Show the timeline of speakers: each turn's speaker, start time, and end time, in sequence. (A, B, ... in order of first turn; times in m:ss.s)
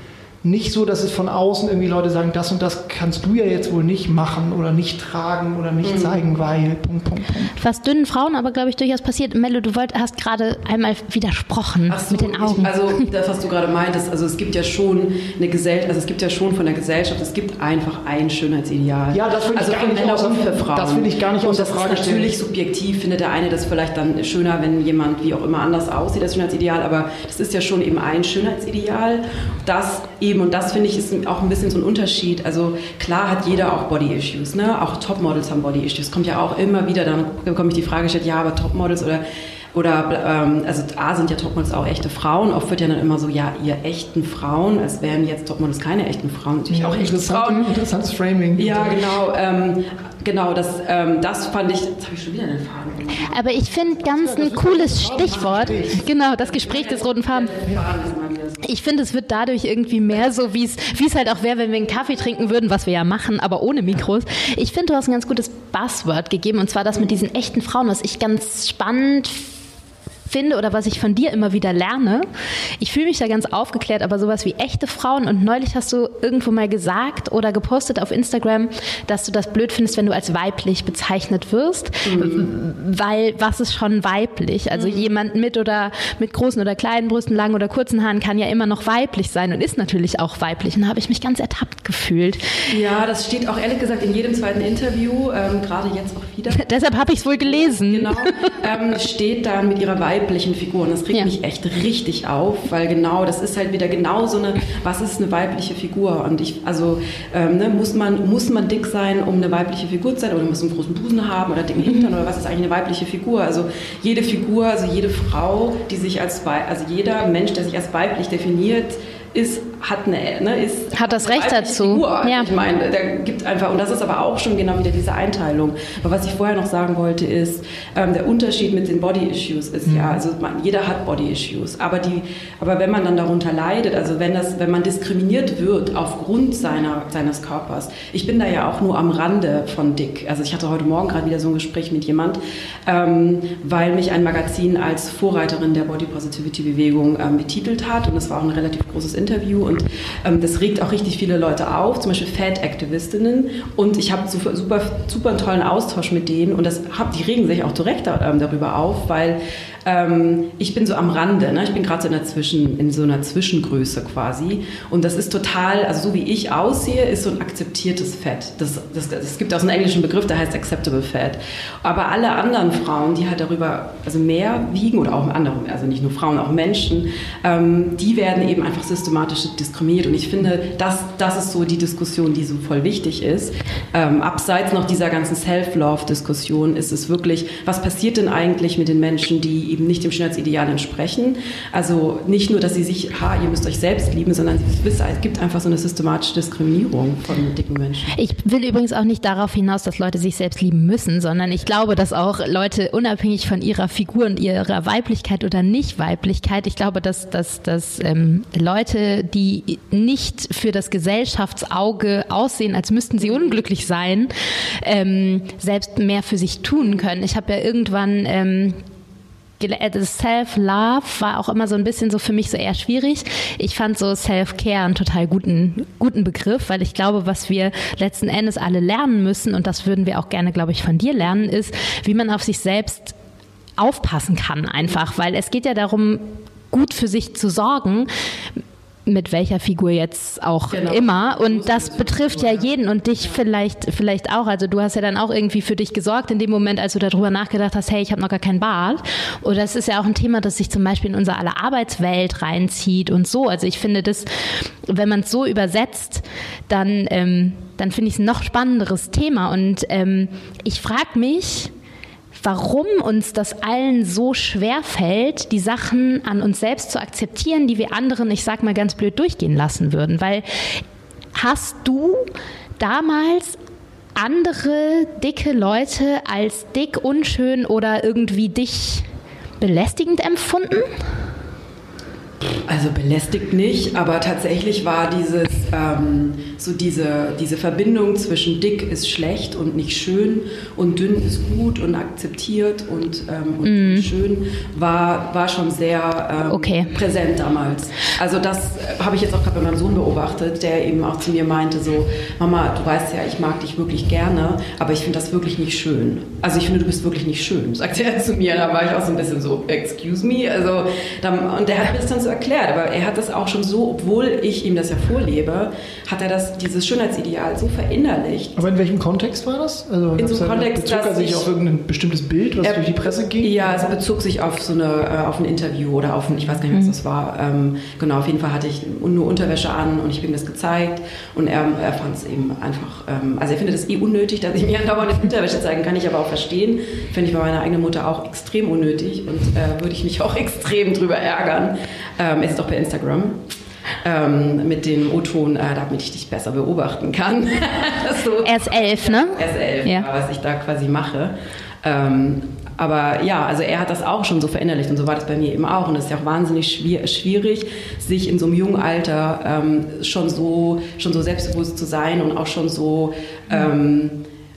0:00.4-0:07.5 A
0:05.8-0:06.2 B
0:07.6-0:13.0 C
0:11.9-0:39.2 B
0:19.1-0:22.3 A
0:39.7-0:47.6 B
0:46.7-0:49.0 A
0:48.6-0:53.9 B
0:53.1-0:57.7 C
0:54.0-0:56.0 A
0:55.7-0:58.7 B
0:58.6-1:09.5 C
1:10.3-1:12.2 C
1:12.8-1:32.7 C
1:22.0-1:22.5 B
1:24.7-1:25.1 B
1:32.7-3:18.2 B
1:36.5-1:38.5 C
2:00.9-2:02.5 C
2:09.8-2:10.2 A
3:18.1-3:38.8 C
3:39.6-3:53.1 C
3:53.8-3:58.1 C
3:59.0-4:21.7 C
4:00.7-4:03.4 B
4:22.3-4:30.8 C
4:31.3-4:32.3 C
4:32.8-4:33.6 C
4:34.2-4:39.0 C
4:39.6-4:41.0 C
4:42.7-5:18.6 B
4:53.6-4:54.1 C
4:56.5-4:56.9 C
5:18.6-5:23.9 A
5:20.2-5:21.5 B
5:23.4-5:43.4 B
5:44.0-6:04.2 B
5:48.4-5:50.0 C